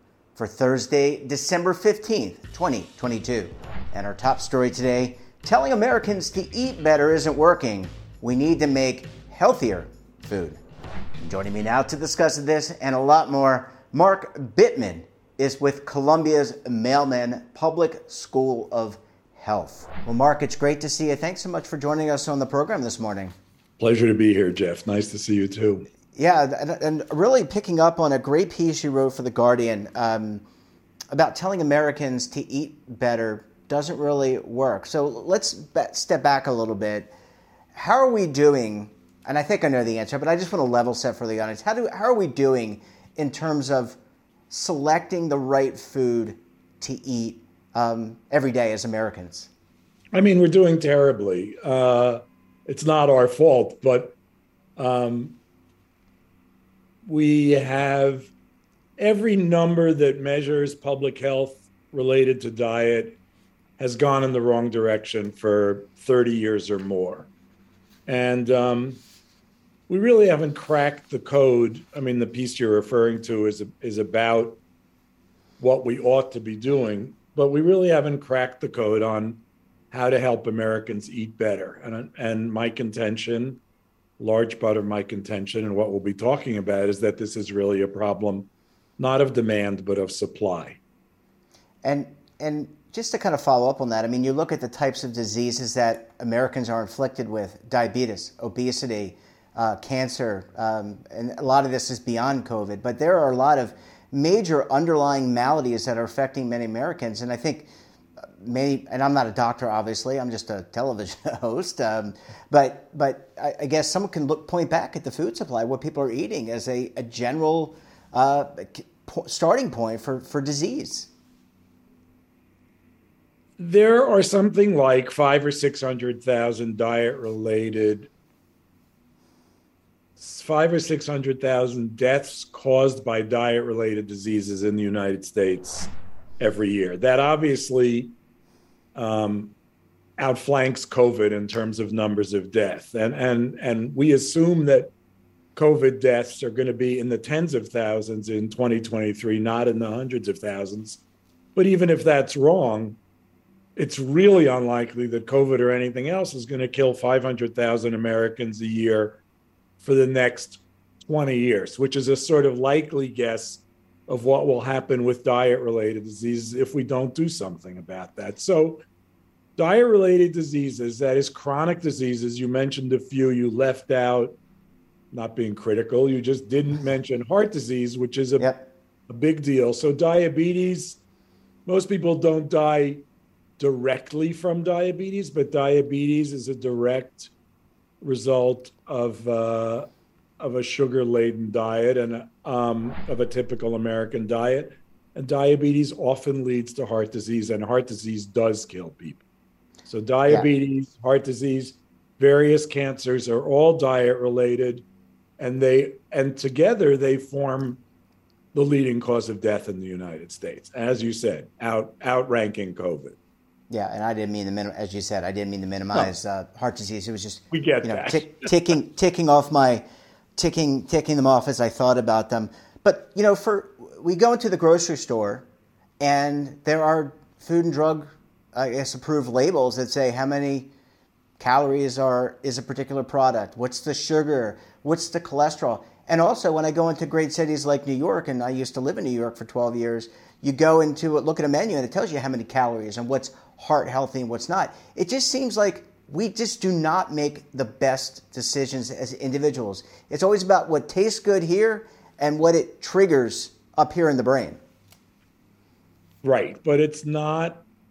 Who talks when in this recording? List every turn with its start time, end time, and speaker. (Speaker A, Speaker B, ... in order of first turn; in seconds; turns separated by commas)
Speaker A: 0.3-10.6, Speaker A: 11.2-23.3, Speaker B: 23.8-25.9, Speaker A: 26.1-30.4, Speaker A: 31.1-37.1, Speaker A: 37.7-44.0, Speaker A: 44.5-49.5, Speaker B: 50.1-54.2, Speaker B: 54.8-55.4, Speaker B: 57.0-58.3, Speaker B: 59.0-63.2, Speaker B: 63.8-67.3, Speaker B: 68.1-69.0, Speaker B: 69.9-74.6, Speaker B: 75.6-83.6, Speaker B: 84.2-90.8, Speaker A: 91.8-107.7, Speaker A: 108.2-121.1, Speaker B: 123.6-128.1, Speaker B: 130.2-138.1, Speaker B: 138.9-139.5, Speaker B: 140.2-144.9, Speaker B: 145.5-151.0, Speaker B: 151.6-153.0, Speaker B: 153.8-159.2, Speaker B: 159.8-168.8, Speaker B: 169.6-174.3, Speaker B: 175.1-178.5, Speaker A: 178.4-178.7, Speaker B: 179.1-181.0, Speaker B: 181.7-183.0, Speaker B: 183.6-187.3, Speaker B: 188.0-199.2, Speaker B: 199.9-204.8, Speaker B: 205.4-207.8, Speaker B: 208.5-213.2, Speaker A: 213.7-225.5, Speaker B: 217.5-218.5, Speaker A: 226.0-230.7, Speaker A: 231.4-254.6, Speaker B: 256.2-257.6